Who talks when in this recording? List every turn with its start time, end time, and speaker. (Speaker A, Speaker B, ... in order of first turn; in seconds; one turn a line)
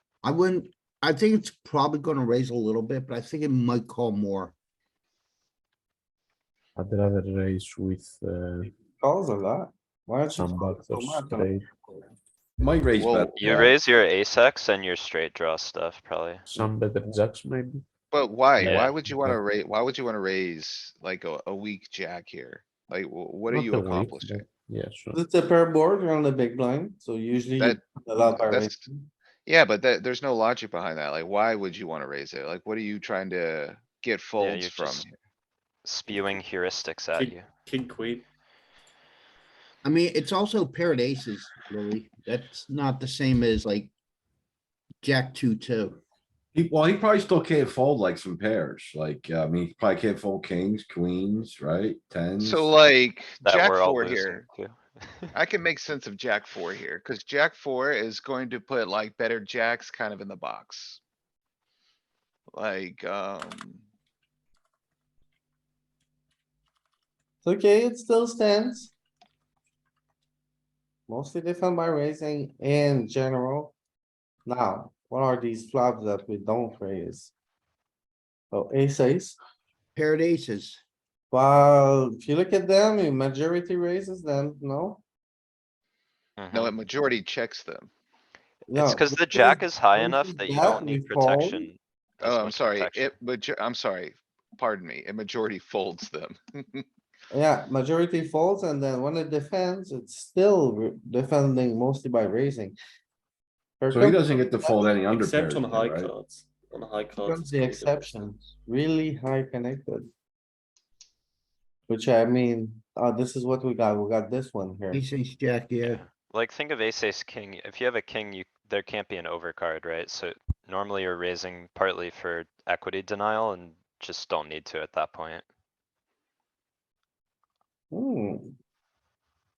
Speaker A: 0.2-4.5
Speaker B: 6.8-8.7
Speaker C: 9.0-12.1
Speaker B: 10.3-11.7
Speaker D: 12.6-13.8
Speaker E: 13.0-13.3
Speaker F: 13.4-16.4
Speaker B: 16.5-17.8
Speaker C: 16.6-17.2
Speaker E: 18.1-24.5
Speaker B: 18.6-19.4
Speaker F: 18.6-18.9
Speaker B: 23.5-25.2
Speaker C: 25.1-29.1
Speaker E: 27.6-28.9
Speaker E: 29.4-35.1
Speaker F: 34.4-35.1
Speaker F: 35.8-37.5
Speaker E: 36.1-36.4
Speaker G: 37.1-38.2
Speaker A: 39.8-43.9
Speaker A: 45.0-46.0
Speaker D: 46.5-52.8
Speaker E: 52.4-54.5
Speaker F: 53.4-55.3
Speaker E: 55.3-61.0
Speaker E: 62.5-63.9
Speaker C: 67.4-68.9
Speaker C: 71.1-73.7
Speaker C: 74.5-77.3
Speaker C: 78.5-79.4
Speaker A: 80.0-80.8
Speaker C: 81.3-85.0
Speaker F: 86.4-86.8
Speaker E: 86.5-87.9
Speaker C: 88.7-91.7
Speaker F: 88.8-93.1
Speaker E: 92.2-96.9
Speaker C: 97.3-102.8
Speaker C: 103.8-104.2
Speaker D: 103.9-106.1
Speaker G: 104.6-108.4
Speaker C: 107.2-110.1
Speaker C: 111.9-115.0
Speaker A: 114.9-116.0
Speaker F: 115.8-125.5
Speaker C: 127.9-128.6